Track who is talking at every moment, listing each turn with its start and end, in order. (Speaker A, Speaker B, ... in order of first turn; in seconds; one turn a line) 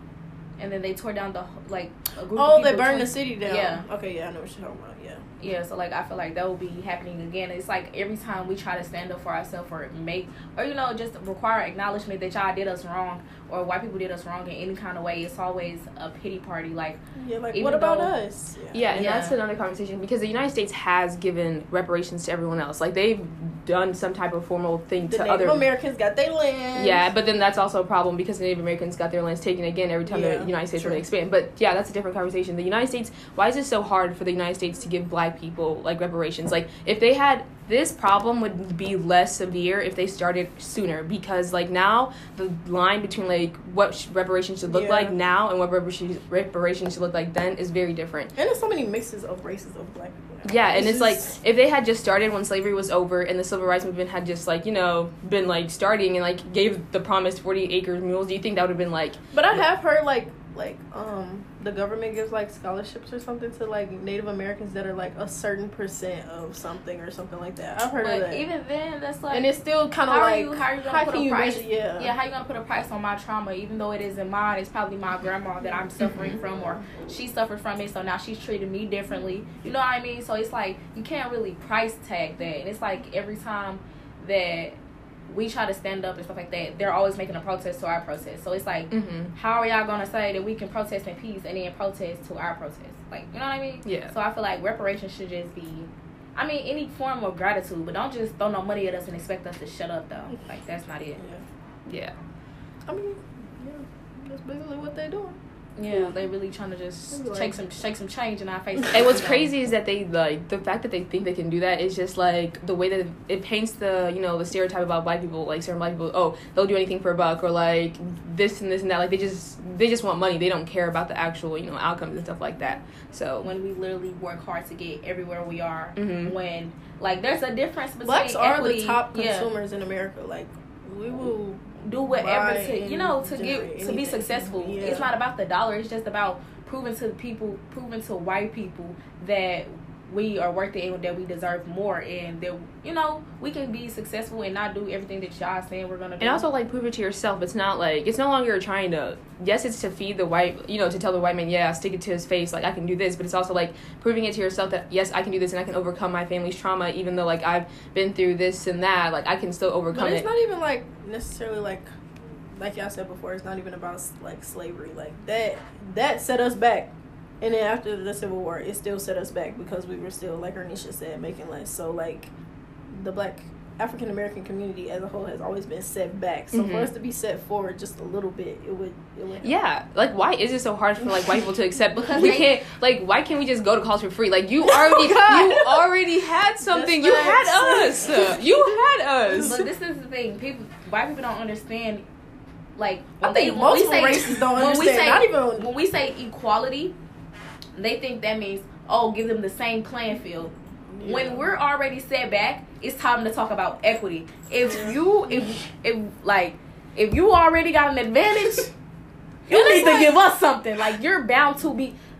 Speaker A: 0.6-3.8
Speaker B: 2.4-5.2
Speaker A: 5.4-17.0
Speaker B: 17.1-18.9
Speaker A: 17.5-18.1
Speaker C: 18.7-25.6
Speaker A: 18.9-19.4
Speaker B: 25.1-27.1
Speaker C: 26.8-48.3
Speaker B: 30.1-31.0
Speaker B: 44.7-45.2
Speaker B: 48.4-51.4
Speaker C: 50.4-59.2
Speaker B: 59.3-68.4
Speaker A: 68.0-69.5
Speaker B: 69.3-72.1
Speaker A: 70.0-84.8
Speaker A: 85.3-101.2
Speaker C: 88.9-89.3
Speaker C: 93.8-94.1
Speaker B: 101.2-101.4
Speaker C: 101.8-102.1
Speaker B: 102.9-105.4
Speaker A: 105.8-109.5
Speaker B: 107.1-107.6
Speaker C: 108.9-123.5
Speaker A: 123.4-129.5
Speaker C: 126.0-126.3
Speaker B: 128.0-135.1
Speaker A: 131.8-146.4
Speaker C: 146.2-160.3
Speaker B: 159.9-161.8
Speaker B: 162.5-172.3
Speaker B: 172.9-179.5
Speaker C: 176.5-176.9
Speaker C: 179.4-189.6
Speaker A: 182.1-182.5
Speaker B: 184.6-185.9
Speaker B: 186.6-188.4
Speaker B: 189.3-189.6
Speaker A: 189.4-192.0
Speaker A: 192.8-196.9
Speaker B: 193.2-195.7
Speaker A: 197.7-208.7
Speaker B: 200.9-201.5
Speaker B: 204.7-205.3
Speaker A: 209.5-212.0
Speaker B: 209.5-210.2